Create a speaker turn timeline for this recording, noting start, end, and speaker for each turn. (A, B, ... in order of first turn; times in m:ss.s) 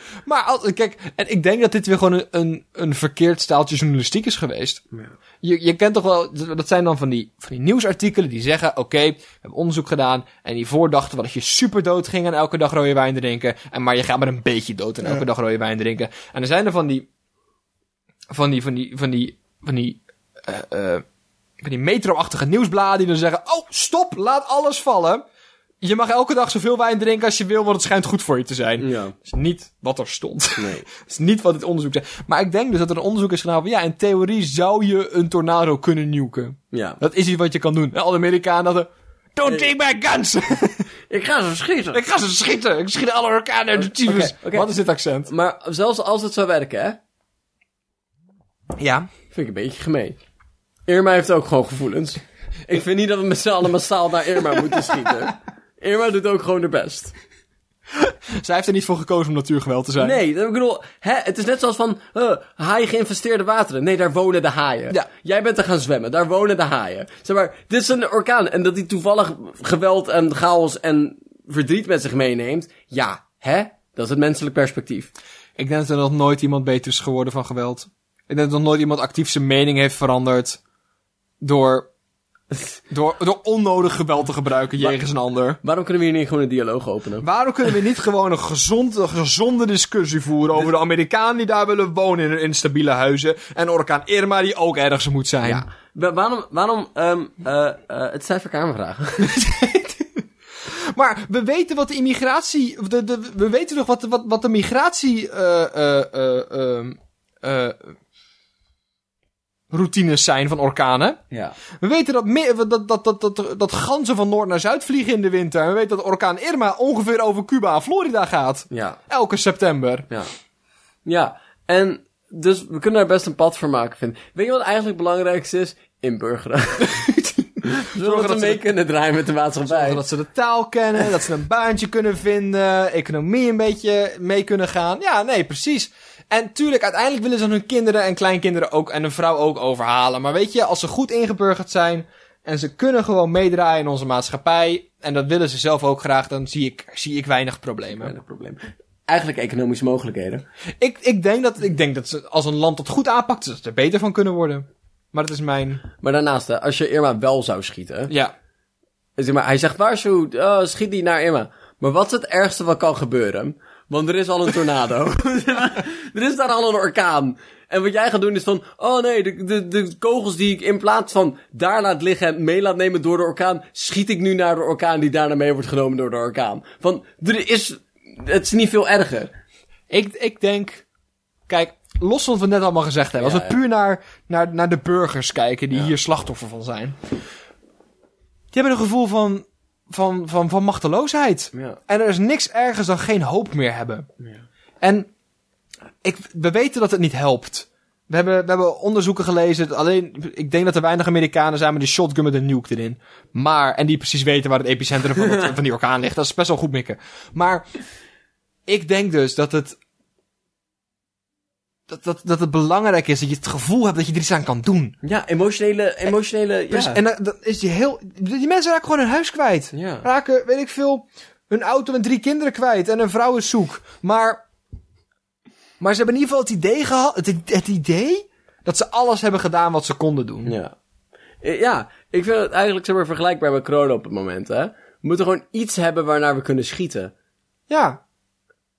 0:00.2-0:04.8 A
0:05.4-0:17.1 A
0:18.3-0:21.0 A
0:21.6-0:25.2 A
0:25.8-0:40.9 A
0:28.8-0:29.1 B
0:30.6-0:30.8 B
0:36.7-0:37.0 B
0:39.4-0:39.7 B
0:41.1-0:42.0 B
0:41.9-0:45.3 A
0:43.8-0:44.7 B
0:45.3-0:47.0 B
0:48.8-0:49.1 A
0:49.3-0:50.2 B
0:50.9-0:57.1 B
0:57.9-1:00.2 A
1:00.0-1:15.1 B
1:15.6-1:20.6 A
1:21.4-1:21.9 A
1:22.9-1:25.6 A
1:25.6-1:27.2 B
1:27.2-1:35.6 A
1:35.4-1:39.3 B
1:39.2-1:48.0 A
1:49.7-1:51.2 A
1:51.3-1:51.6 B
1:51.8-2:00.1 A
1:58.7-1:59.0 B
2:01.0-2:07.0 B
2:06.8-2:08.6 A
2:07.6-2:10.0 B
2:09.7-2:28.1 A
2:28.0-2:30.4 B
2:30.8-2:35.8 A
2:36.0-2:38.1 B
2:39.2-2:59.3 B
2:59.9-3:00.8 A
3:01.5-3:07.0 A
3:03.2-3:03.6 B
3:08.5-3:14.1 A
3:14.8-3:15.1 A
3:16.0-3:27.6 A
3:28.7-3:29.8 A
3:31.9-3:34.9 A
3:35.0-3:37.0 B
3:36.7-3:44.4 A
3:39.7-3:40.0 B
3:45.8-3:50.6 A
3:50.4-3:50.7 B
3:51.4-3:57.1 B
3:57.7-3:58.0 A